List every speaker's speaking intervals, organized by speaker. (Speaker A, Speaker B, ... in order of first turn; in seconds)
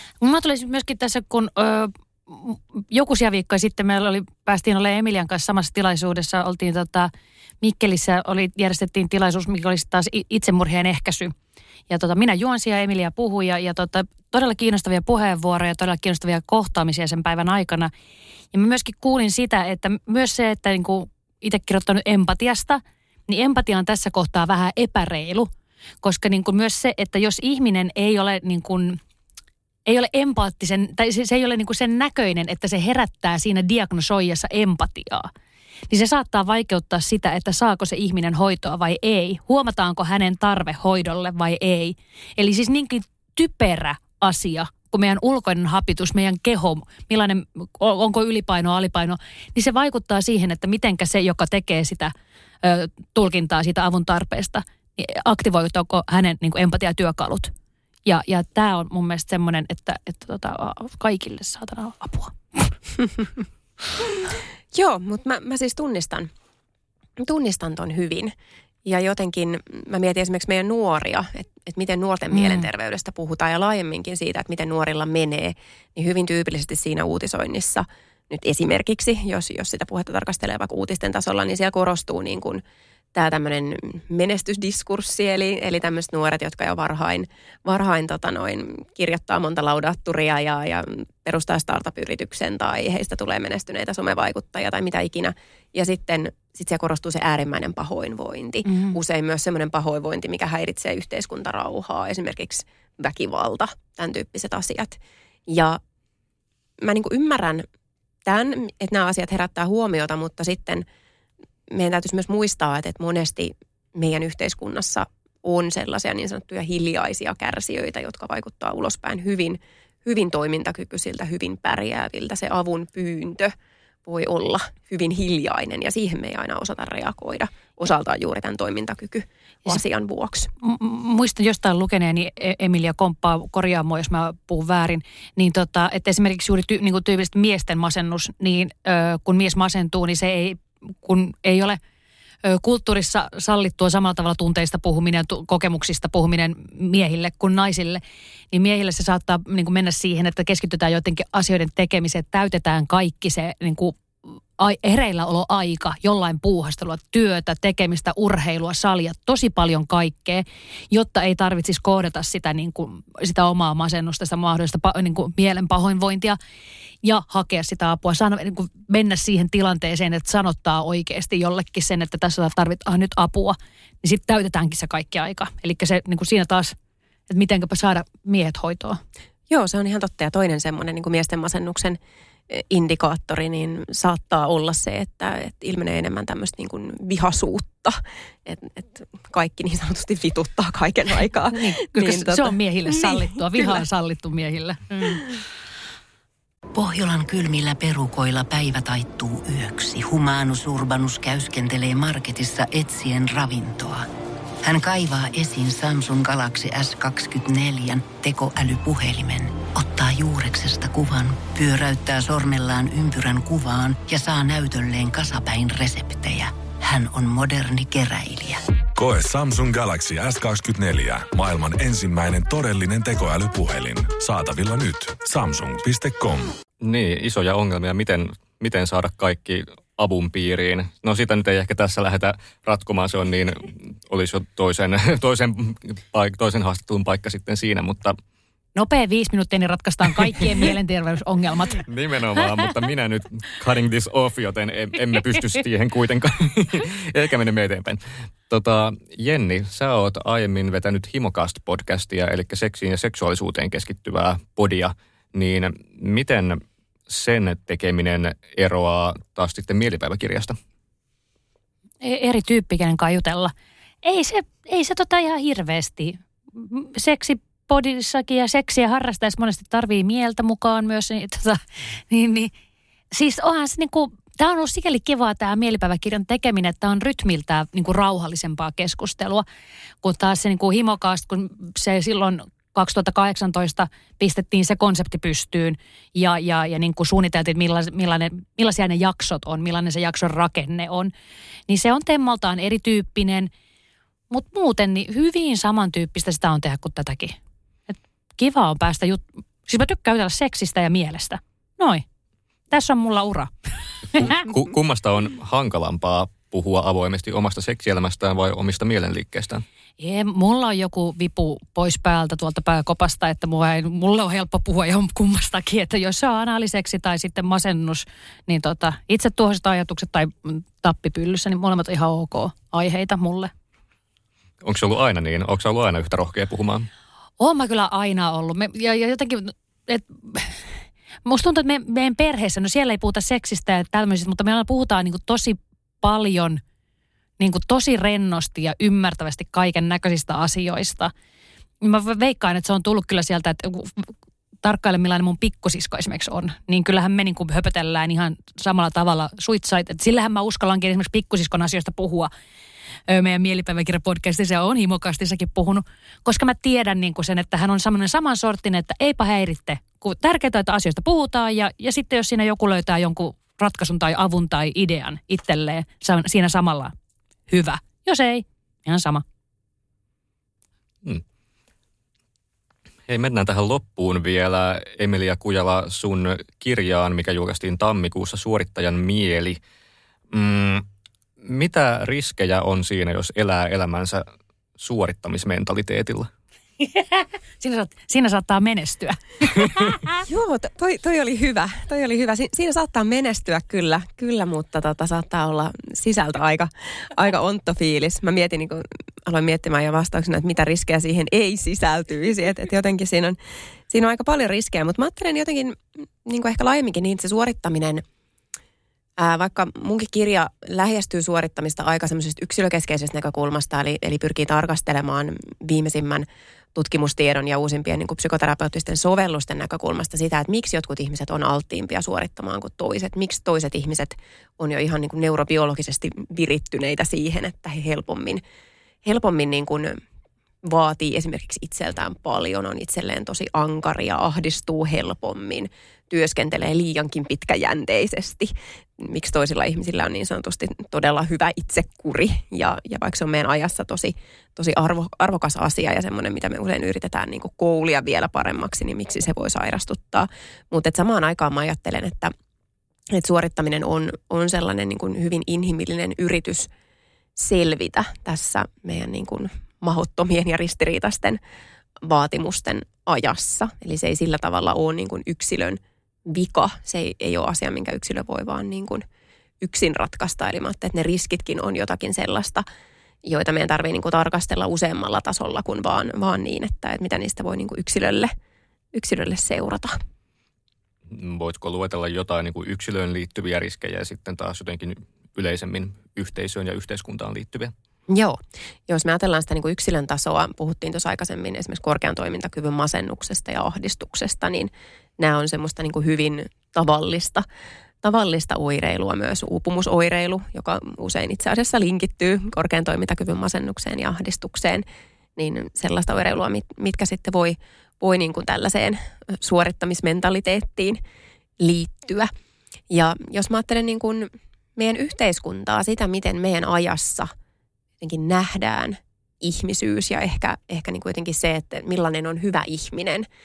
Speaker A: 0.2-11.3, 11.9-17.9, 18.5-25.5, 26.0-29.0, 29.9-35.3, 35.9-57.5, 58.0-62.7, 72.3-72.7, 98.7-99.0, 130.6-141.8, 142.4-154.0, 154.6-166.4, 167.0-176.8, 177.3-179.0, 191.5-195.3, 238.8-241.8, 262.0-272.5, 273.1-279.5, 280.0-291.1, 291.7-293.5, 294.3-297.4, 297.9-302.1, 302.7-304.5, 310.0-323.5, 327.4-330.6, 331.3-336.6, 337.4-341.1, 341.8-352.3, 353.1-366.9, 367.5-369.2, 386.8-390.2
Speaker B: 64.7-66.3, 67.2-68.3, 68.8-82.6, 83.1-105.8, 106.8-107.7, 108.3-110.8, 111.7-123.5, 124.1-130.5, 179.5-182.0, 182.5-193.8, 390.3-403.4, 403.9-408.0, 409.2-428.4, 429.1-430.0, 430.6-452.3, 453.1-456.7, 457.4-461.4, 462.0-469.1, 469.6-472.6, 473.2-478.3, 478.9-480.0, 488.1-497.5, 498.0-504.9, 505.4-511.0, 511.6-512.3, 512.9-517.3, 518.0-523.3
Speaker C: 196.8-204.1, 204.6-218.6
Speaker D: 219.0-226.5
Speaker E: 226.8-238.2, 241.8-260.6, 304.2-309.6, 324.6-326.9, 373.1-379.6, 380.3-380.9, 381.4-384.2, 384.8-386.3, 481.1-487.7